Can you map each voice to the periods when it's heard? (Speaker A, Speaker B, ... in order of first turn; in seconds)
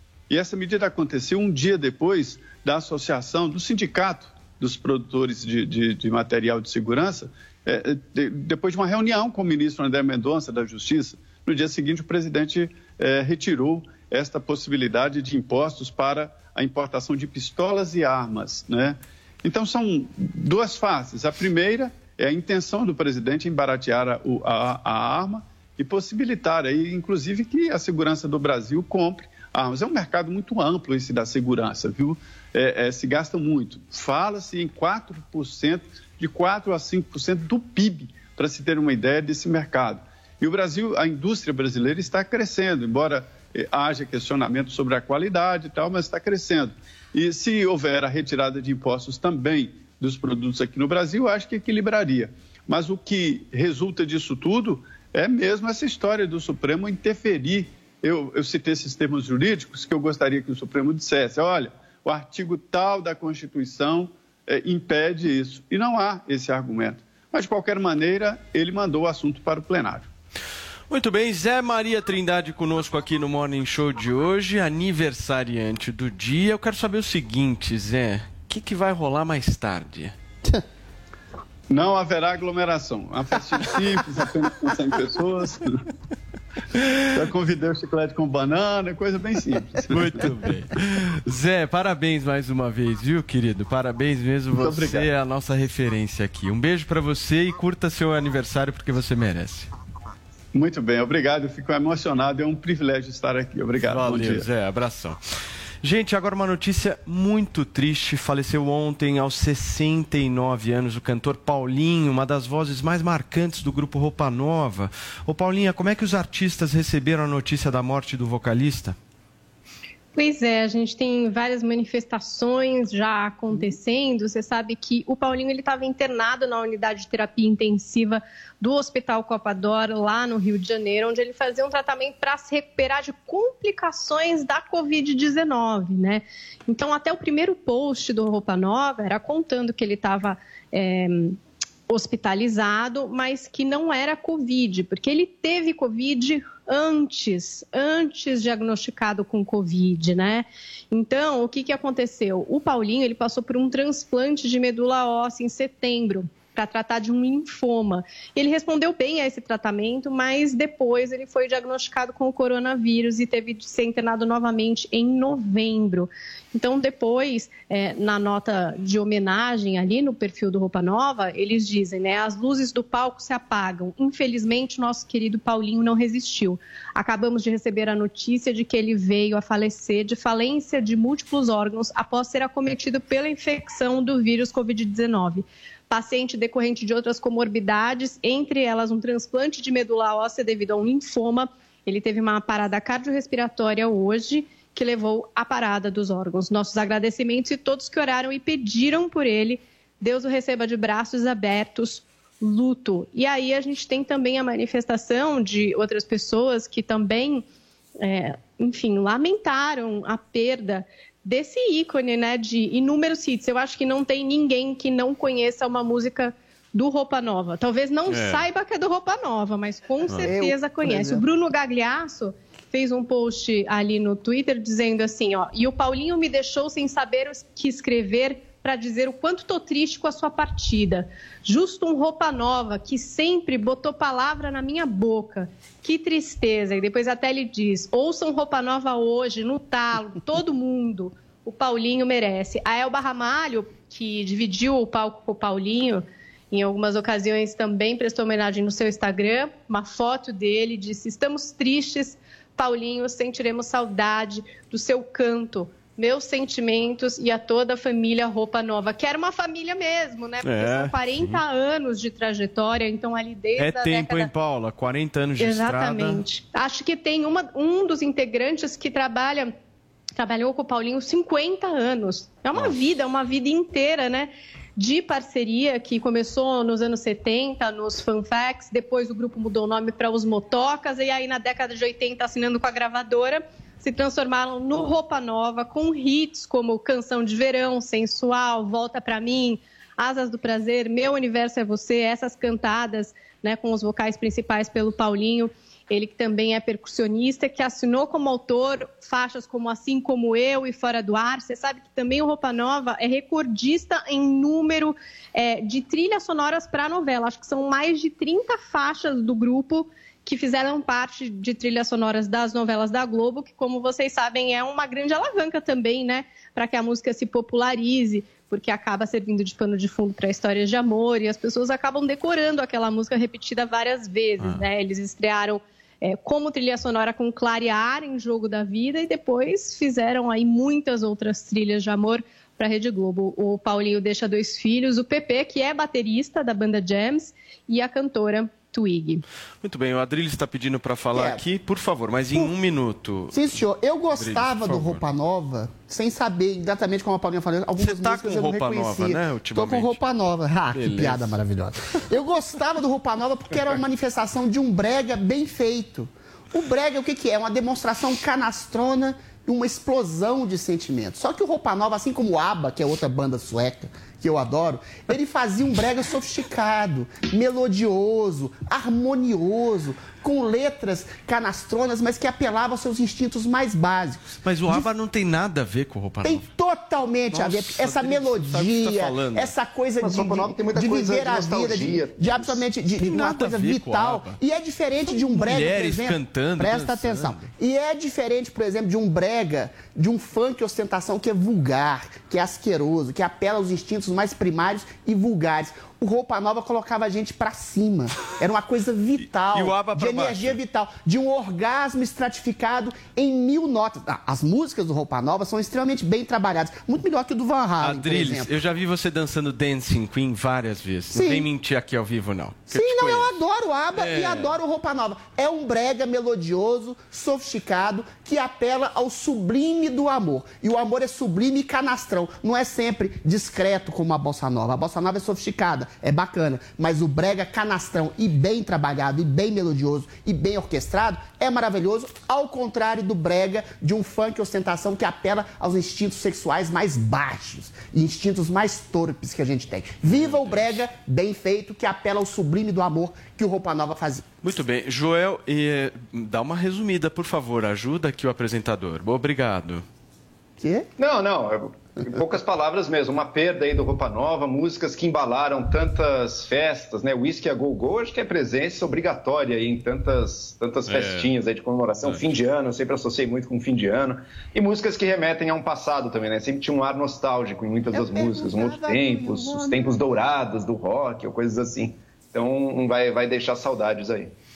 Speaker A: 0.3-70.1, 81.7-85.8, 87.1-90.3, 94.5-95.1, 100.5-104.5
Speaker B: 70.9-80.1, 89.9-99.7, 103.9-105.2, 105.8-119.0, 218.1-218.5, 220.1-220.3, 260.4-261.4, 263.6-266.2, 272.5-272.8, 324.4-324.6, 339.6-345.0, 347.8-350.0, 350.7-351.4, 374.4-376.4, 377.3-379.5, 383.0-384.4, 385.1-387.5, 399.2-400.6, 407.8-413.3, 413.9-414.6, 440.1-440.8, 444.4-449.9, 460.9-461.3, 462.0-462.3
Speaker C: 120.2-207.5, 208.0-264.3, 265.4-269.6, 270.2-339.2
Speaker D: 220.2-221.2, 341.1-341.4, 343.3-374.9, 376.2-408.5, 411.1-411.4, 412.7-444.4, 450.6-450.9, 467.9-470.0
Speaker E: 380.0-382.6, 451.0-474.3